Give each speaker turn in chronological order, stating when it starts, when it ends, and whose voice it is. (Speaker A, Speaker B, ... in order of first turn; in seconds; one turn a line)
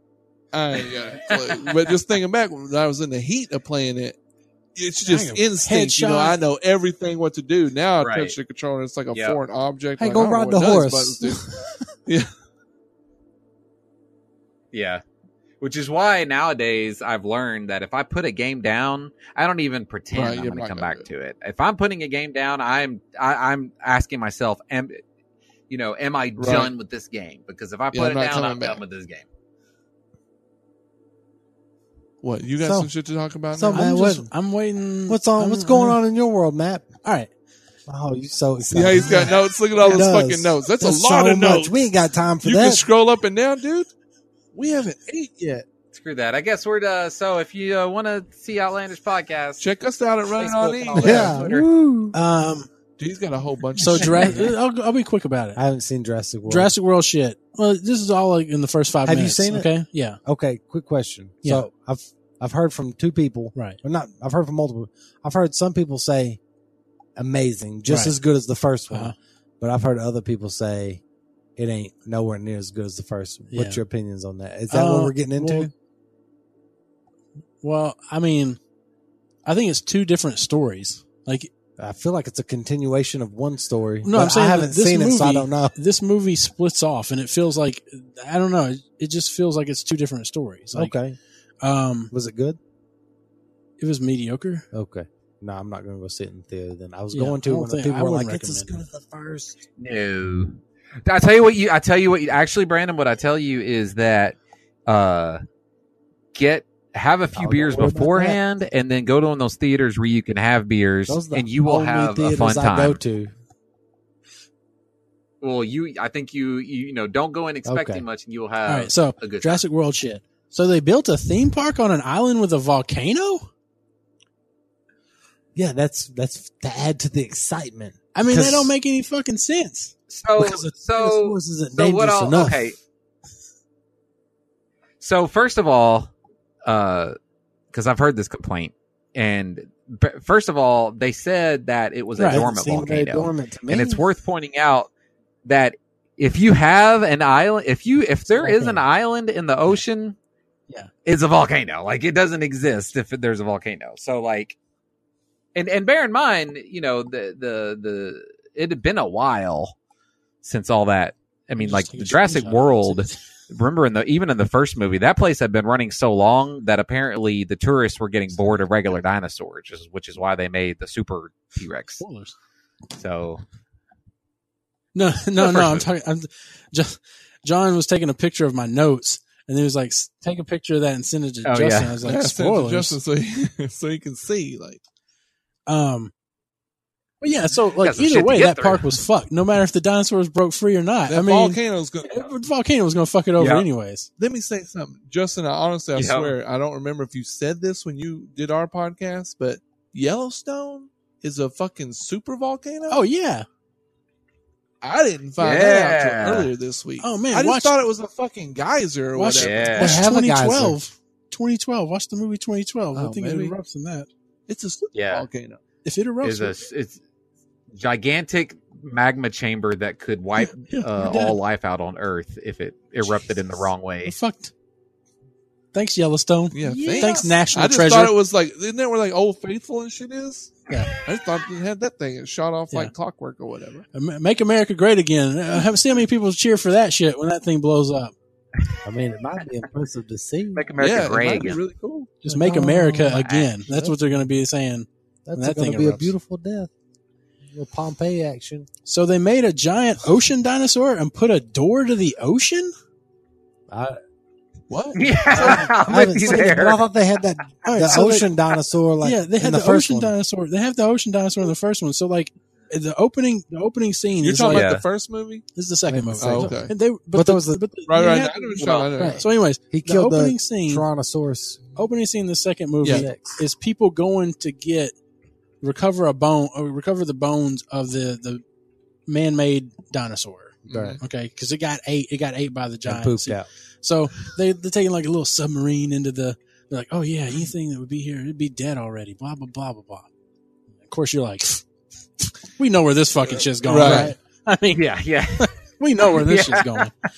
Speaker A: 0.5-4.2
Speaker B: 1.3-1.8
Speaker A: 4.7-11.5
Speaker C: 5.0-6.4
Speaker B: 8.0-8.3
Speaker B: 9.1-9.4
Speaker D: 10.0-11.7
Speaker A: 12.1-12.3
Speaker B: 14.7-15.0
Speaker B: 15.6-25.0
Speaker A: 20.1-21.1
Speaker B: 25.7-29.2
Speaker A: 26.4-26.7
Speaker A: 27.9-28.8
Speaker A: 32.2-33.8
Speaker D: 32.6-32.9
Speaker D: 33.5-34.3
Speaker C: 33.7-36.0
Speaker D: 35.1-36.9
Speaker C: 37.0-37.3
Speaker D: 37.9-42.8
Speaker A: 38.7-41.7
Speaker A: 42.4-43.9
Speaker A: 44.5-45.6
Speaker B: 45.9-49.6
Speaker A: 49.6-51.5
Speaker B: 50.4-51.7
Speaker D: 50.9-52.1
Speaker C: 52.1-52.7
Speaker A: 53.0-54.5
Speaker C: 53.8-55.6
Speaker D: 55.5-56.7
Speaker C: 56.5-60.2
Speaker D: 59.0-59.7
Speaker D: 60.2-66.4
Speaker D: 67.2-71.0
Speaker C: 67.9-68.2
Speaker C: 68.9-69.2
Speaker D: 71.6-75.7
Speaker C: 73.5-73.8
Speaker C: 74.7-75.7
Speaker C: 77.6-78.6
Speaker C: 79.4-81.5
Speaker D: 81.8-85.8
Speaker C: 84.0-90.9
Speaker D: 90.7-91.2
Speaker C: 91.6-92.1
Speaker D: 92.1-92.6
Speaker C: 93.8-94.7
Speaker D: 94.7-99.6
Speaker C: 97.1-98.8
Speaker B: 99.8-105.4
Speaker B: 106.3-113.0
Speaker D: 107.3-108.4
Speaker D: 111.1-113.3
Speaker B: 115.4-119.6
Speaker D: 117.7-118.0
Speaker C: 118.7-123.5
Speaker D: 125.5-128.7
Speaker C: 128.1-129.9
Speaker B: 130.1-132.8
Speaker D: 130.4-132.7
Speaker B: 135.0-136.1
Speaker B: 136.6-137.2
Speaker B: 137.7-144.9
Speaker C: 142.2-142.5
Speaker D: 142.2-144.0
Speaker B: 145.4-150.2
Speaker C: 148.3-148.8
Speaker B: 151.0-154.6
Speaker B: 155.5-159.8
Speaker B: 160.4-172.0
Speaker C: 161.6-163.2
Speaker C: 172.0-172.4
Speaker B: 172.9-173.4
Speaker C: 174.9-183.0
Speaker B: 175.4-175.9
Speaker B: 181.4-182.0
Speaker A: 182.0-184.8
Speaker C: 185.7-186.1
Speaker C: 187.2-194.1
Speaker B: 187.8-189.0
Speaker A: 191.1-192.3
Speaker B: 193.4-193.7
Speaker A: 194.2-203.0
Speaker B: 195.9-196.3
Speaker C: 202.9-203.4
Speaker A: 204.8-209.9
Speaker B: 205.4-206.5
Speaker C: 207.0-207.7
Speaker C: 209.1-214.1
Speaker B: 209.4-210.0
Speaker D: 209.7-210.8
Speaker A: 212.9-213.5
Speaker A: 214.5-215.6
Speaker B: 214.9-215.2
Speaker C: 215.8-216.6
Speaker B: 216.2-217.0
Speaker B: 217.7-224.1
Speaker C: 220.4-221.4
Speaker C: 224.0-224.5
Speaker C: 225.7-228.1
Speaker A: 226.5-233.9
Speaker B: 226.7-227.3
Speaker C: 233.9-238.1
Speaker D: 238.8-241.5
Speaker B: 240.5-241.6
Speaker A: 240.8-242.1
Speaker D: 242.2-244.2
Speaker C: 242.2-246.1
Speaker B: 243.1-243.5
Speaker D: 245.2-246.7
Speaker D: 247.5-248.7
Speaker C: 248.9-252.7
Speaker D: 253.7-254.0
Speaker A: 254.7-255.7
Speaker B: 254.9-256.8
Speaker D: 255.3-260.1
Speaker C: 257.6-258.3
Speaker C: 259.0-264.7
Speaker A: 264.2-265.4
Speaker B: 264.5-264.8
Speaker C: 265.5-268.6
Speaker D: 265.9-267.6
Speaker A: 266.2-266.7
Speaker A: 267.9-269.3
Speaker B: 268.6-268.9
Speaker D: 268.9-271.6
Speaker C: 269.2-270.9
Speaker C: 271.8-274.9
Speaker A: 272.8-273.1
Speaker D: 272.9-273.4
Speaker C: 275.6-278.4
Speaker C: 279.1-290.1
Speaker D: 280.7-281.0
Speaker A: 280.7-281.0
Speaker D: 282.8-283.5
Speaker C: 290.8-291.6
Speaker C: 292.2-294.9
Speaker A: 293.6-294.1
Speaker B: 294.7-295.5
Speaker C: 295.4-296.9
Speaker B: 296.1-296.9